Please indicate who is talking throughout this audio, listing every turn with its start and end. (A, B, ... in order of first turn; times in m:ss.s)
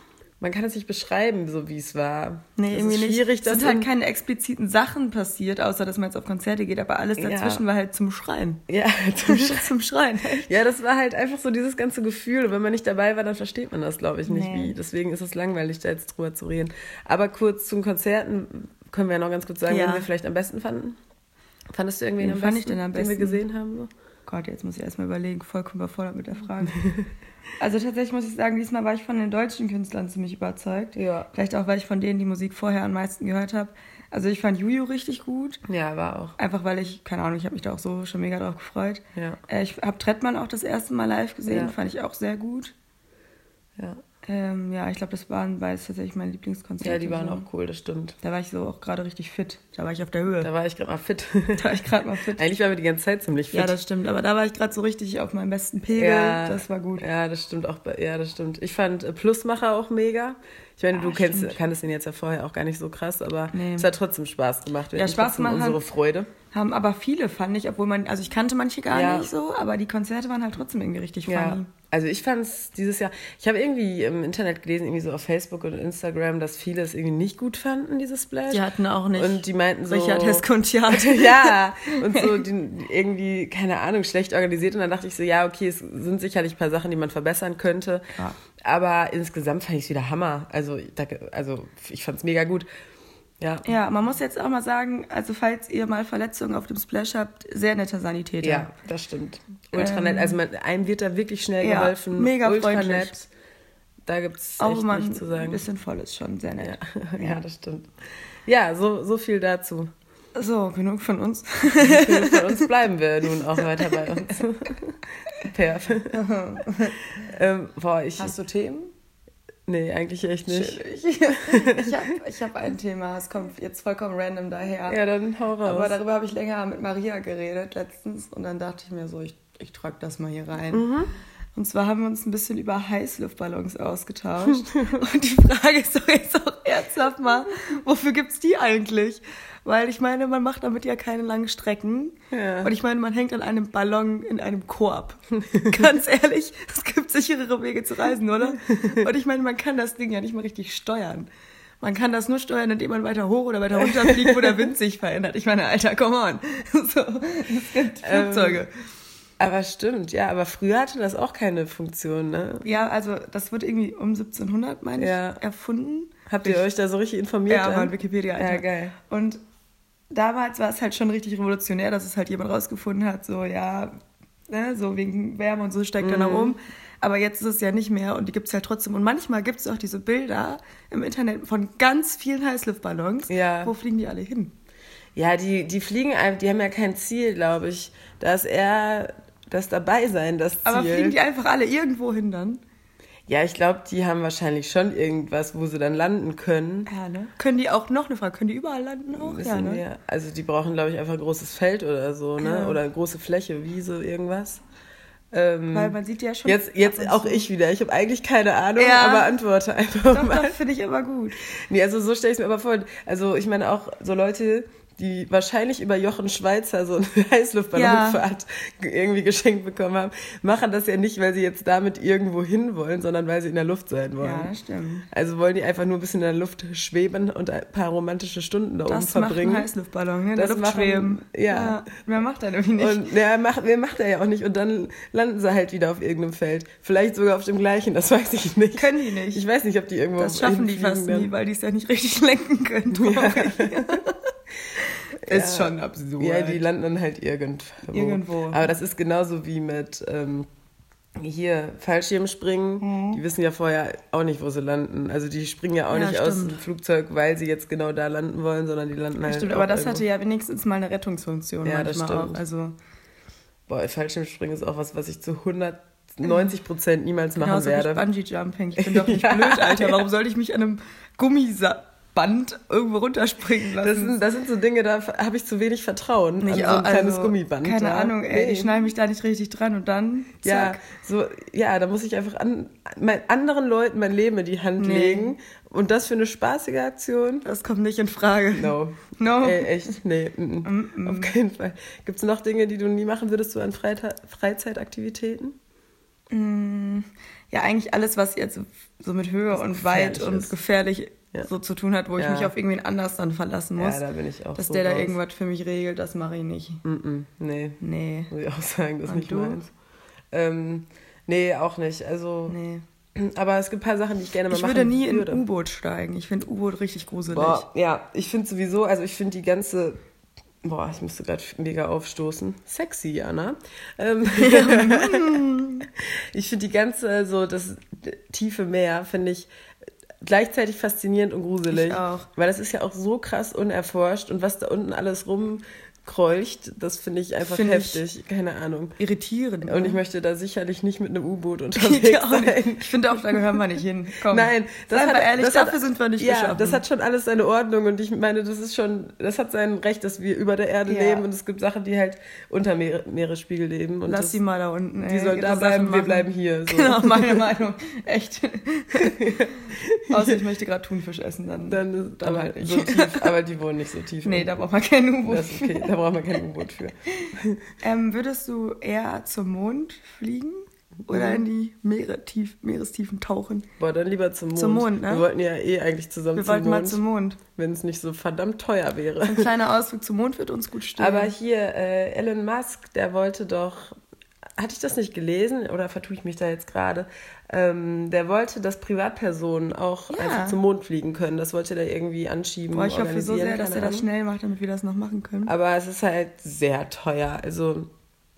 0:00.4-0:03.9 A
0:02.6-0:08.6 B
0:07.2-0:07.6 A
0:08.7-0:09.7 A
0:09.2-0:10.5 B
0:10.4-0:21.0 A
0:14.2-0:14.8 B
0:19.6-0:20.1 B
0:21.7-0:23.9 A
0:22.2-0:23.4 B
0:24.3-0:26.8 B
0:27.6-0:35.6 B
0:31.0-0:31.3 A
0:35.7-0:36.4 A
0:36.4-0:42.7 B
0:39.1-0:39.4 A
0:41.5-0:41.7 A
0:44.2-0:47.4 B
0:46.8-0:48.2 A
0:48.2-0:50.5 B
0:50.4-0:53.7 A
0:51.6-0:52.4 B
0:53.5-0:57.0 B
0:55.9-1:06.3 A
1:00.9-1:01.6 B
1:03.5-1:03.9 B
1:04.9-1:05.8 B
1:06.5-1:11.7 B
1:08.9-1:09.3 A
1:11.2-1:28.1 A
1:18.5-1:22.4 B
1:28.6-1:32.7 A
1:33.4-1:33.7 A
1:33.6-1:38.7 B
1:38.4-1:43.3 A
1:39.7-1:40.4 B
1:41.6-1:43.2 B
1:44.0-1:45.6 A
1:44.6-1:47.4 B
1:46.6-1:47.9 A
1:48.4-1:49.9 A
1:50.3-1:52.7 B
1:51.8-1:54.8 A
1:53.6-1:54.4 B
1:55.4-1:56.2 A
1:56.1-1:57.0 B
1:57.1-1:58.4 A
1:58.2-1:58.9 B
1:59.7-2:01.9 A
2:00.5-2:05.0 B
2:04.9-2:06.0 A
2:05.6-2:10.9 B
2:10.7-2:11.1 A
2:11.5-2:31.3 B
2:14.7-2:15.0 A
2:22.3-2:22.7 A
2:25.4-2:25.8 A
2:31.8-2:38.7 B
2:33.8-2:34.7 A
2:38.0-2:38.6 A
2:39.4-2:42.7 A
2:42.6-2:46.6 B
2:45.0-2:45.4 A
2:46.3-2:48.9 A
2:47.5-2:49.4 B
2:50.1-2:54.0 B
2:54.5-3:04.5 B
2:56.0-2:56.6 A
3:03.3-3:03.7 A
3:05.2-3:11.1 A
3:10.6-3:12.6 B
3:13.3-3:16.9 A
3:16.9-3:19.8 B
3:19.1-3:24.6 A
3:22.4-3:22.8 B
3:25.3-3:30.5 A
3:25.7-3:27.5 B
3:28.8-3:29.3 B
3:30.1-3:31.4 B
3:31.7-3:44.5 A
3:37.7-3:38.2 B
3:44.2-3:45.1 B
3:45.1-3:49.7 A
3:48.9-3:53.0 B
3:50.3-3:51.8 A
3:52.8-4:01.3 A
3:58.7-3:59.4 B
4:00.2-4:04.2 B
4:02.9-4:03.8 A
4:04.8-4:06.6 B
4:05.2-4:10.5 A
4:07.9-4:08.7 B
4:11.2-4:20.0 A
4:12.8-4:13.2 B
4:15.9-4:16.6 B
4:19.2-4:22.8 B
4:21.6-4:22.4 A
4:23.7-4:28.0 A
4:27.4-4:34.2 B
4:28.8-4:30.0 A
4:33.8-4:38.8 A
4:36.4-4:40.8 B
4:40.4-4:47.4 A
4:44.8-4:45.3 B
4:47.4-4:49.7 B
4:48.5-4:55.6 A
4:50.6-4:51.3 B
4:56.3-5:04.0 B
4:59.5-5:00.5 A
5:02.2-5:02.5 A
5:03.8-5:05.2 A
5:04.5-5:06.8 B
5:06.8-5:09.7 A
5:07.8-5:08.3 B
5:09.0-5:09.6 B
5:10.3-5:12.6 A
5:12.5-5:12.8 B
5:13.2-5:15.4 A
5:14.5-5:17.6 B
5:17.3-5:20.0 A
5:20.6-5:29.5 A
5:24.3-5:25.8 B
5:30.2-5:39.0 A
5:31.7-5:32.3 B
5:37.4-5:38.0 B
5:39.0-5:40.0 B
5:39.6-5:43.4 A
5:41.7-5:46.8 B
5:44.3-5:54.4 A
5:50.8-5:51.2 B
5:54.1-5:59.6 B
5:55.0-5:57.5 A
5:59.0-6:00.4 A
6:00.1-6:03.3 B
6:01.7-6:04.5 A
6:04.2-6:05.9 B
6:05.2-6:07.7 A
6:07.8-6:13.7 B
6:11.1-6:11.4 A
6:13.8-6:17.0 A
6:14.5-6:15.3 B
6:16.3-6:17.4 B
6:17.5-6:19.5 A
6:19.2-6:21.3 B
6:21.0-6:24.0 A
6:24.6-6:34.1 A
6:30.1-6:30.6 B
6:32.7-6:35.5 B
6:35.4-6:37.9 A